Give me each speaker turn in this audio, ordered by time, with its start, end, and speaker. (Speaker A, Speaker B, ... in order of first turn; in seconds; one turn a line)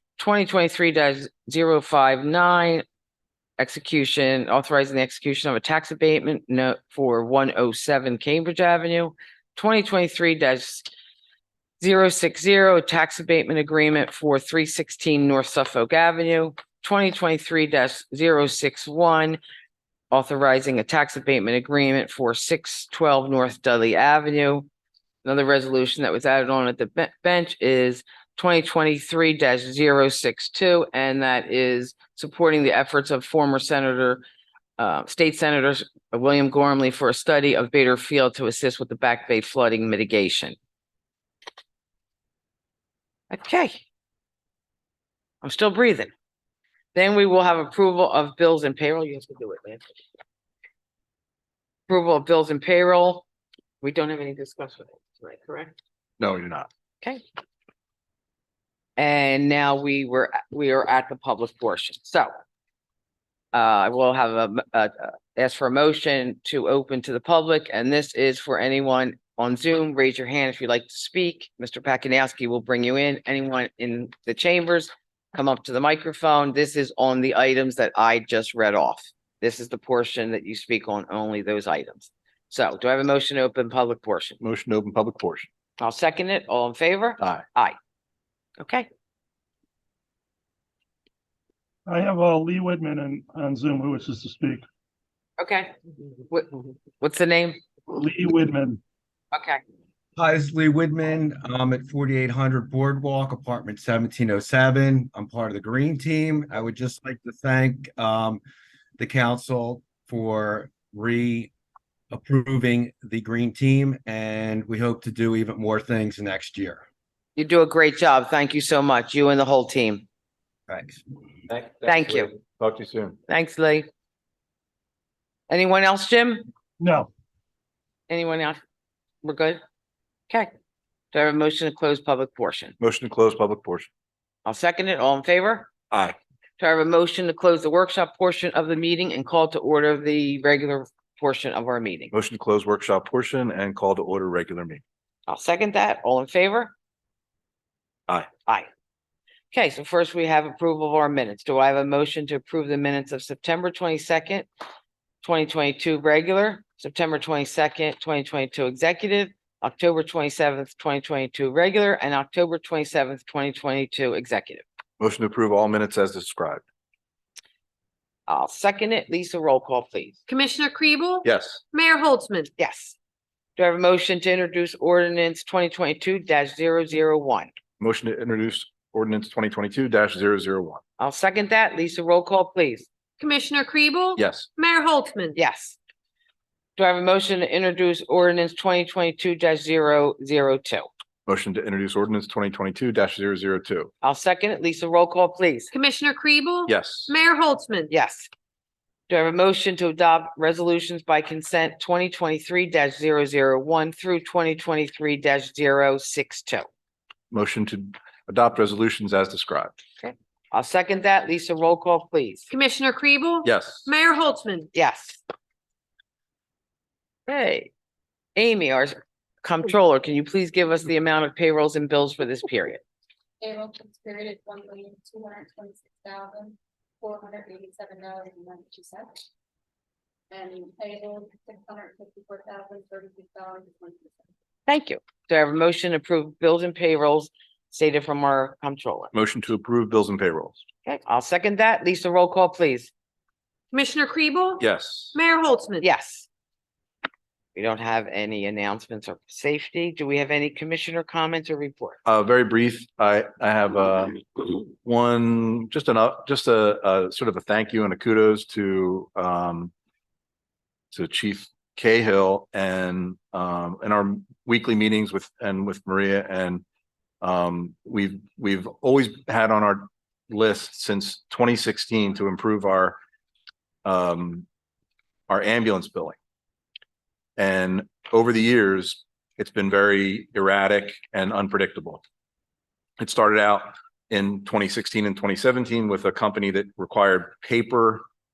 Speaker A: 0.2-2.8
Speaker A: 3.6-10.9
Speaker A: 11.8-19.4
Speaker A: 20.1-24.7
Speaker A: 25.2-34.2
Speaker A: 34.8-40.5
Speaker A: 43.3-43.8
Speaker A: 45.4-46.1
Speaker A: 46.9-49.8
Speaker A: 51.9-53.2
Speaker A: 53.8-55.7
Speaker B: 56.2-56.7
Speaker A: 59.0-62.3
Speaker A: 63.5-84.4
Speaker B: 84.4-85.5
Speaker A: 85.8-87.8
Speaker A: 88.6-88.9
Speaker C: 91.8-94.6
Speaker A: 95.4-95.7
Speaker A: 96.3-97.6
Speaker C: 97.9-98.8
Speaker A: 99.3-99.6
Speaker D: 100.2-108.4
Speaker D: 109.0-111.5
Speaker D: 112.1-116.8
Speaker A: 117.3-120.0
Speaker D: 120.7-121.0
Speaker B: 121.5-123.2
Speaker A: 121.8-122.3
Speaker A: 123.3-123.9
Speaker A: 125.5-126.5
Speaker C: 126.8-127.1
Speaker A: 128.1-128.6
Speaker A: 129.2-129.6
Speaker A: 131.1-132.8
Speaker B: 132.8-133.9
Speaker A: 134.4-135.7
Speaker B: 135.9-136.2
Speaker A: 136.6-142.1
Speaker B: 142.1-144.8
Speaker A: 145.3-146.7
Speaker A: 148.4-148.7
Speaker A: 149.5-154.5
Speaker A: 155.2-164.6
Speaker B: 165.0-166.6
Speaker A: 168.3-170.2
Speaker E: 170.3-172.5
Speaker B: 171.2-171.6
Speaker A: 172.6-172.9
Speaker A: 173.6-177.5
Speaker B: 177.8-180.8
Speaker A: 181.0-182.9
Speaker E: 183.2-185.3
Speaker B: 184.2-184.5
Speaker A: 185.3-185.8
Speaker A: 186.8-190.9
Speaker B: 191.3-193.9
Speaker A: 194.0-195.7
Speaker E: 195.7-197.9
Speaker B: 196.7-197.1
Speaker A: 197.9-198.3
Speaker A: 199.1-206.7
Speaker B: 207.3-209.8
Speaker A: 210.0-212.5
Speaker E: 212.5-214.7
Speaker B: 213.4-213.9
Speaker A: 214.7-215.2
Speaker A: 217.3-217.7
Speaker A: 218.3-222.8
Speaker F: 223.4-229.2
Speaker F: 230.3-234.2
Speaker A: 234.7-239.1
Speaker B: 239.1-240.6
Speaker A: 240.8-242.9
Speaker E: 243.7-245.8
Speaker B: 244.6-245.1
Speaker A: 245.8-246.3
Speaker A: 247.5-252.0
Speaker B: 252.0-259.7
Speaker B: 260.9-266.6
Speaker B: 267.2-273.0
Speaker B: 273.8-274.4
Speaker B: 275.3-276.1
Speaker B: 277.4-282.0
Speaker B: 283.0-288.0